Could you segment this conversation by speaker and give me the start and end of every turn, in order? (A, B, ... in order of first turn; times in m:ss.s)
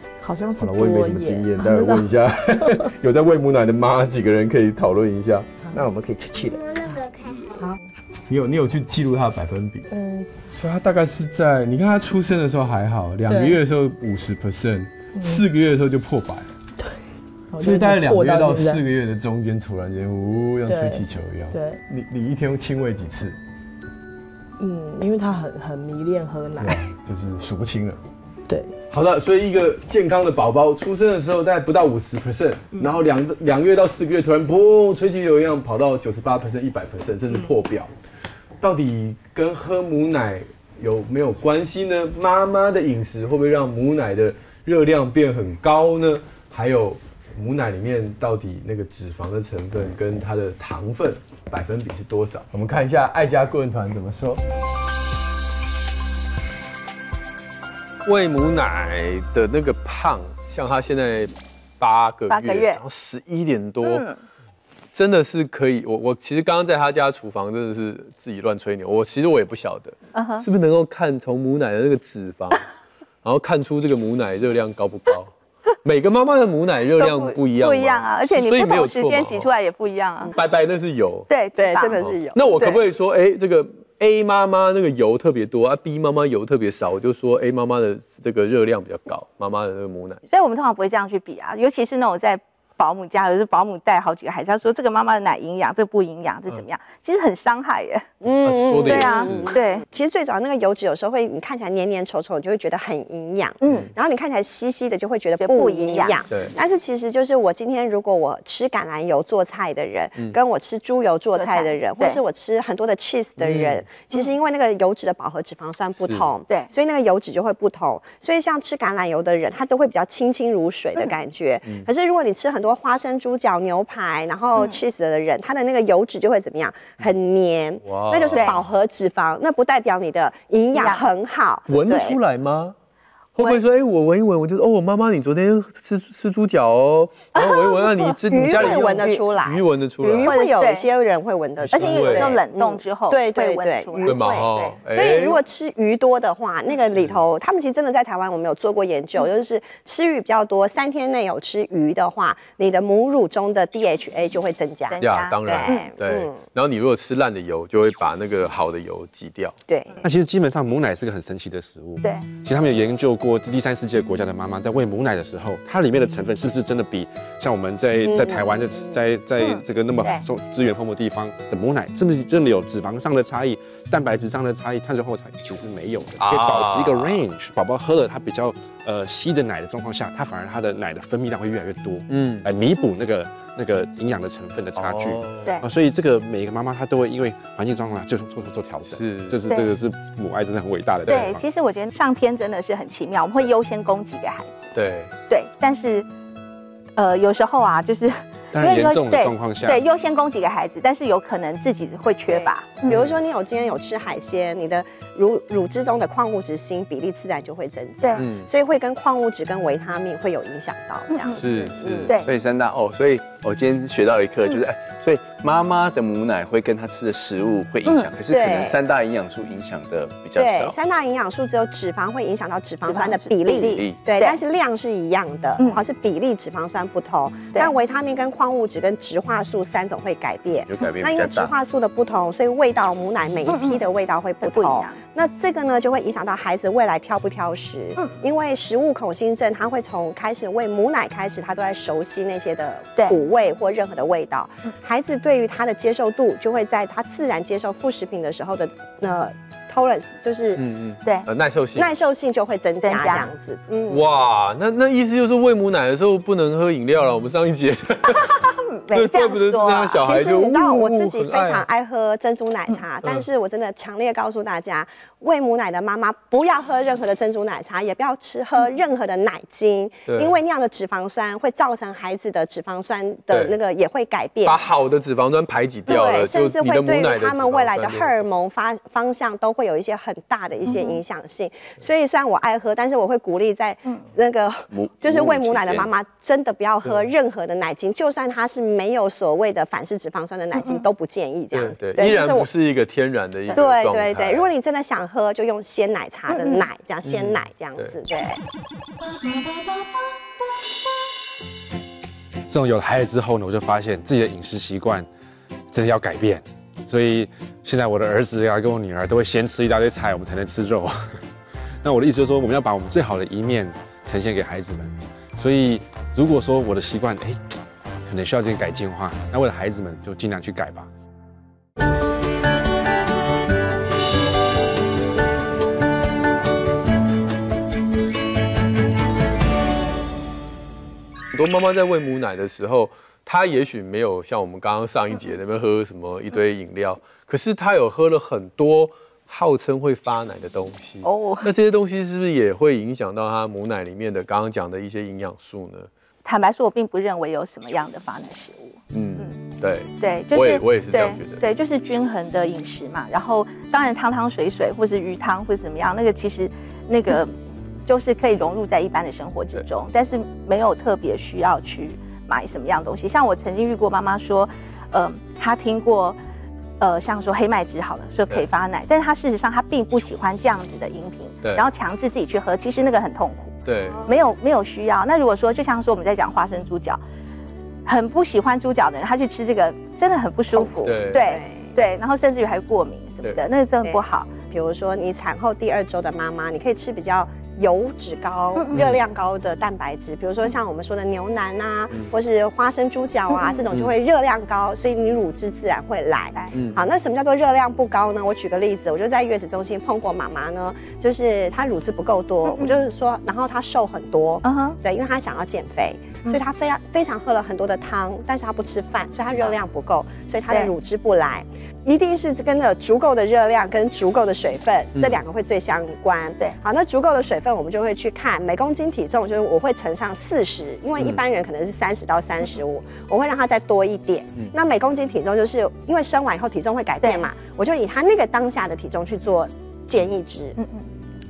0:00.2-0:02.9 A
0:00.6-0:06.7 B
0:07.6-0:07.8 A
0:08.3-0:09.9 B
0:09.9-0:10.3 A
0:10.4-0:16.5 B
0:13.3-0:13.6 A
0:15.1-0:15.4 A
0:16.8-0:18.8 A
0:17.6-0:23.4 B
0:20.7-0:21.8 A
0:24.6-0:26.8 A
0:26.6-0:28.0 B
0:28.5-0:28.7 A
0:28.9-0:37.9 B
0:38.6-0:54.4 B
0:58.0-1:04.0 B
1:02.3-1:02.8 C
1:03.8-1:04.2 C
1:04.9-1:12.6 B
1:10.1-1:10.4 C
1:13.2-1:15.3 B
1:15.8-1:19.5 B
1:17.0-1:20.3 C
1:20.3-1:21.3 B
1:21.3-1:22.0 C
1:21.6-1:22.8 D
1:22.0-1:30.2 B
1:30.3-1:38.0 C
1:38.2-2:12.2 D
1:38.4-1:39.6 B
1:38.8-1:39.8 C
1:43.6-1:43.9 C
1:43.6-1:43.9 B
1:45.4-1:46.2 C
1:46.3-1:46.5 B
1:51.3-1:52.2 C
1:53.4-1:53.8 B
1:56.0-1:56.3 B
2:04.5-2:04.8 C
2:07.8-2:08.6 B
2:08.3-2:08.6 C
2:10.7-2:11.1 C
2:11.7-2:12.7 B
2:13.4-2:20.4 B
2:17.4-2:17.8 C
2:18.3-2:36.4 D
2:18.5-2:19.2 C
2:20.2-2:20.9 C
2:21.6-2:22.4 B
2:21.7-2:24.8 C
2:24.0-2:25.4 B
2:26.9-2:27.2 B
2:34.9-2:35.9 C
2:35.0-2:39.6 B
2:39.7-2:40.0 D
2:40.0-3:11.4 E
2:48.0-2:48.9 D
2:49.4-2:50.2 C
2:56.2-2:57.2 B
3:02.1-3:02.5 B
3:04.7-3:05.6 B
3:08.9-3:09.4 B
3:11.1-3:14.7 C
3:14.7-3:15.1 B
3:15.3-3:16.1 C
3:17.0-3:22.9 C
3:18.5-3:19.8 E
3:22.3-3:32.1 D
3:22.9-3:23.2 B
3:28.0-3:28.2 C
3:28.2-3:28.5 B
3:31.1-3:31.4 C
3:31.3-3:32.1 B
3:32.2-3:40.8 F
3:38.2-3:38.8 D
3:40.3-4:10.6 D
3:42.8-3:44.4 C
3:43.3-3:44.0 F
3:50.6-3:51.5 F
3:53.5-3:53.8 C
3:54.4-3:55.0 C
4:10.6-4:11.9 B
4:11.8-4:14.0 D
4:12.8-4:13.3 C
4:13.9-4:21.6 B
4:18.5-4:20.0 C
4:20.0-4:34.6 D
4:30.0-4:30.4 B
4:33.3-4:33.6 B
4:34.4-4:38.1 B
4:35.9-4:52.5 D
4:35.9-4:36.2 C
4:40.6-4:41.0 C
4:44.7-4:45.9 F
4:46.8-4:47.1 B
4:50.5-4:50.9 C
4:51.5-4:54.5 B
4:53.5-4:58.4 D
4:56.3-4:56.7 C
4:57.0-4:58.0 B
4:59.0-5:00.1 C
5:02.5-5:05.1 E
5:05.7-5:11.2 E
5:11.8-5:17.5 E
5:18.0-5:20.9 E
5:31.3-5:45.9 B
5:41.0-5:41.5 C
5:46.2-5:49.4 C
5:48.9-5:51.4 B
5:50.0-6:06.2 C
6:06.8-6:17.0 C
6:11.4-6:11.7 B
6:13.6-6:14.1 B
6:17.8-6:24.3 C
6:20.5-6:21.7 D
6:20.8-6:21.3 B
6:23.8-7:10.6 D
6:28.6-6:28.8 C
6:28.7-6:29.0 B
6:33.3-6:33.6 C
6:36.5-6:36.8 B
6:42.4-6:42.8 C
6:44.4-6:44.8 C
6:54.9-6:55.2 B
7:07.0-7:07.3 C
7:10.6-7:10.9 C